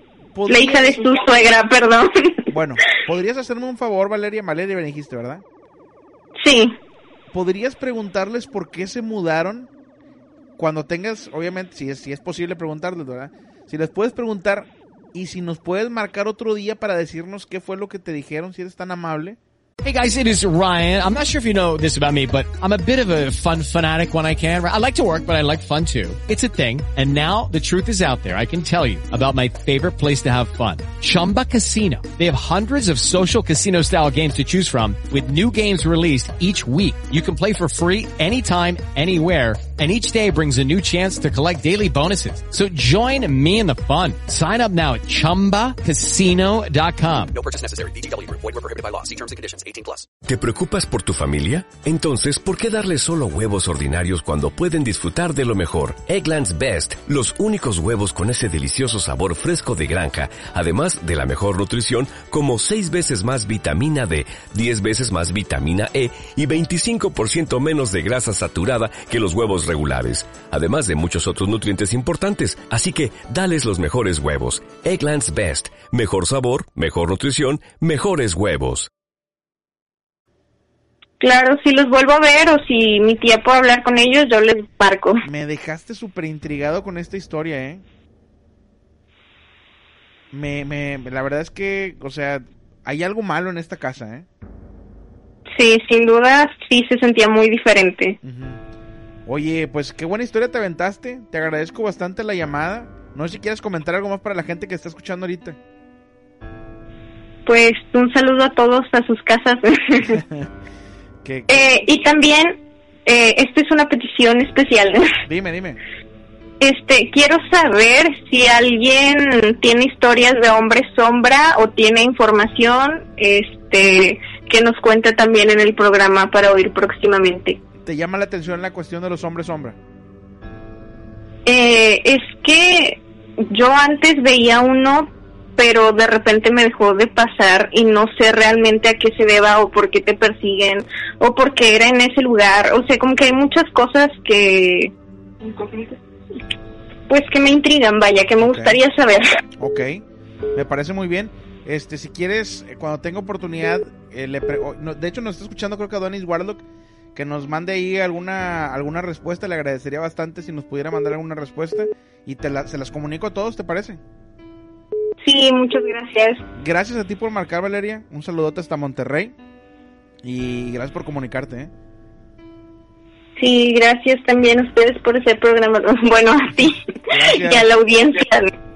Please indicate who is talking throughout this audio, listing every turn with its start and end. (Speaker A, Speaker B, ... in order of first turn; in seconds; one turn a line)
Speaker A: 0.3-1.1
Speaker B: 0.5-2.3
Speaker A: 2.5-5.4
Speaker B: 6.4-6.7
Speaker A: 7.3-9.7
Speaker A: 10.6-19.4
Speaker C: 19.8-47.4
Speaker D: 47.3-50.1
Speaker E: 50.2-78.9
Speaker B: 81.2-85.2
Speaker A: 85.2-87.8
Speaker A: 90.3-94.3
Speaker B: 95.5-98.2
Speaker A: 98.2-98.6
Speaker A: 99.3-105.6
Speaker B: 107.5-110.2
Speaker A: 110.2-110.5
Speaker A: 111.2-111.7
Speaker B: 111.5-115.2
Speaker A: 115.3-115.8
Speaker B: 116.6-127.6
Speaker A: 127.8-129.8
Speaker B: 131.5-144.9
Speaker B: 145.6-145.9
Speaker B: 147.1-149.4
Speaker A: 148.4-148.8
Speaker A: 149.6-150.0
Speaker A: 150.6-156.6
Speaker A: 157.2-164.0
Speaker B: 165.2-166.4
Speaker A: 166.6-169.3
Speaker A: 170.2-171.7
Speaker B: 173.4-176.8
Speaker A: 177.1-177.7
Speaker B: 177.3-178.5